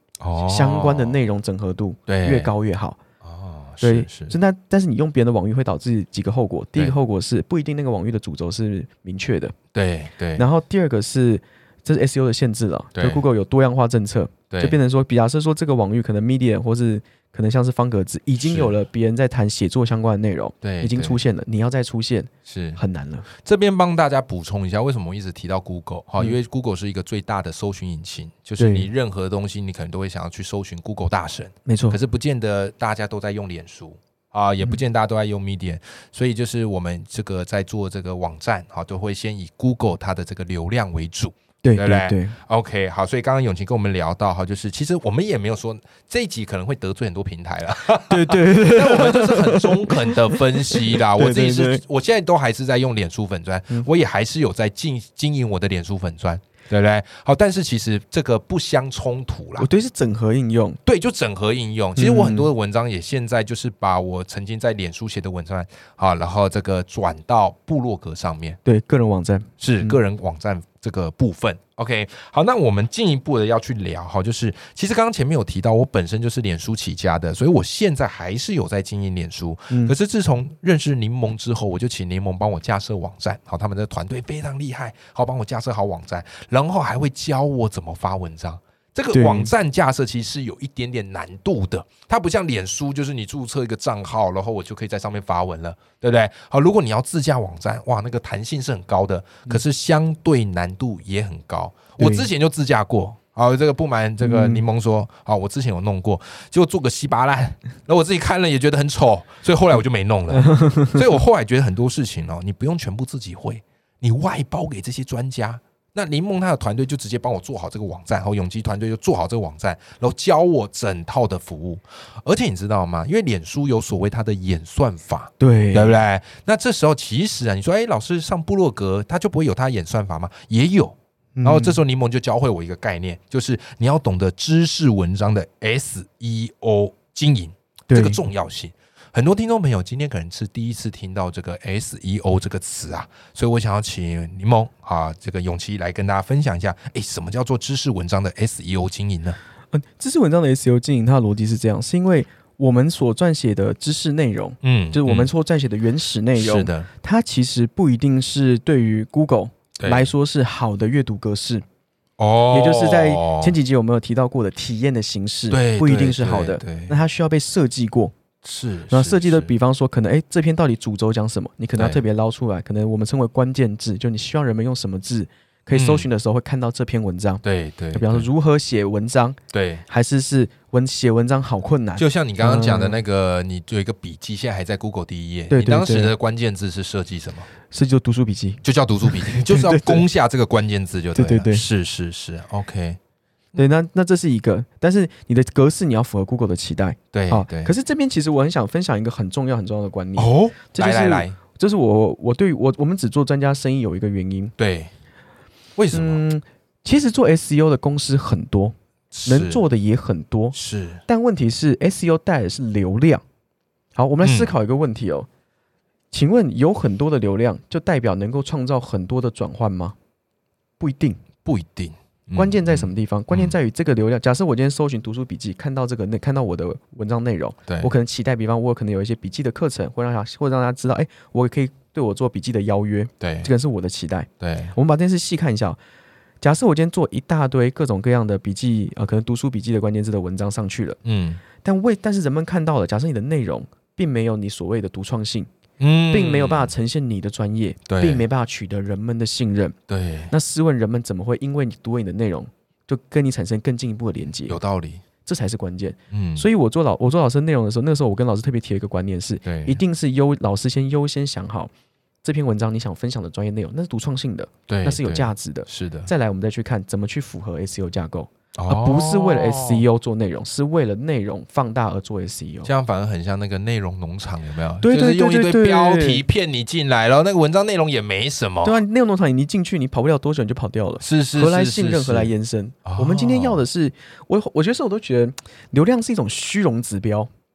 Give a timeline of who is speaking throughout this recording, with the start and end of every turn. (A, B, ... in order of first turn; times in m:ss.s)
0:00.2-0:01.2 A
0:00.4-0:03.0 B
0:02.1-0:02.5 A
0:03.2-0:04.4 A
0:03.8-0:09.6 B
0:09.7-0:10.4 A
0:10.4-0:23.3 B
0:13.0-0:13.2 A
0:14.5-0:14.8 A
0:18.4-0:18.8 A
0:20.6-0:21.2 A
0:22.5-0:22.8 A
0:23.4-0:59.7 A
0:28.6-0:28.9 B
0:31.7-0:32.0 B
0:41.6-0:42.4 B
0:48.1-0:51.8 B
0:59.6-1:00.8 B
1:00.8-1:08.6 A
1:02.0-1:02.5 B
1:08.6-1:10.0 B
1:09.6-2:29.4 A
1:19.7-1:20.0 B
1:29.1-1:29.5 B
1:42.0-1:42.3 B
1:44.2-1:44.6 B
1:50.3-1:51.1 B
2:05.4-2:06.0 B
2:11.4-2:11.8 B
2:17.9-2:18.2 B
2:29.7-2:41.6 B
2:34.6-2:35.3 A
2:36.4-2:36.9 A
2:39.8-2:40.1 A
2:42.2-2:43.6 A
2:42.5-2:48.1 B
2:45.5-2:47.0 A
2:48.4-2:49.5 A
2:48.9-2:59.4 B
2:51.7-2:52.0 A
2:55.7-2:56.1 A
2:57.4-2:58.3 A
2:59.5-2:59.8 A
2:59.9-3:03.0 B
3:02.0-3:07.5 A
3:05.5-3:06.2 B
3:07.7-3:10.1 B
3:08.6-3:13.0 A
3:11.1-3:11.6 B
3:13.6-3:24.5 B
3:17.1-3:17.7 A
3:20.2-3:21.4 A
3:24.6-3:24.9 A
3:25.8-3:26.2 A
3:25.9-3:28.7 B
3:29.1-3:29.6 A
3:29.3-3:30.6 B
3:30.5-3:31.0 A
3:31.1-3:33.2 B
3:34.0-3:35.3 B
3:34.2-3:34.5 A
3:36.1-3:40.0 B
3:40.8-3:41.2 B
3:41.4-3:43.6 A
3:42.3-3:55.8 B
3:53.2-3:53.5 A
3:54.4-3:54.7 A
3:56.4-4:01.0 B
4:01.0-4:01.4 A
4:01.6-4:05.5 B
4:05.8-4:06.7 A
4:06.1-4:09.8 B
4:07.9-4:08.2 A
4:09.9-4:10.3 A
4:10.3-4:14.6 B
4:14.5-4:15.0 A
4:15.3-4:21.7 B
4:16.1-4:16.5 A
4:19.4-4:19.8 A
4:22.2-4:32.7 B
4:24.7-4:26.1 A
4:28.6-4:29.8 A
4:32.6-4:38.8 A
4:34.8-4:36.2 B
4:38.6-4:47.3 B
4:41.0-4:42.3 A
4:42.8-4:43.6 A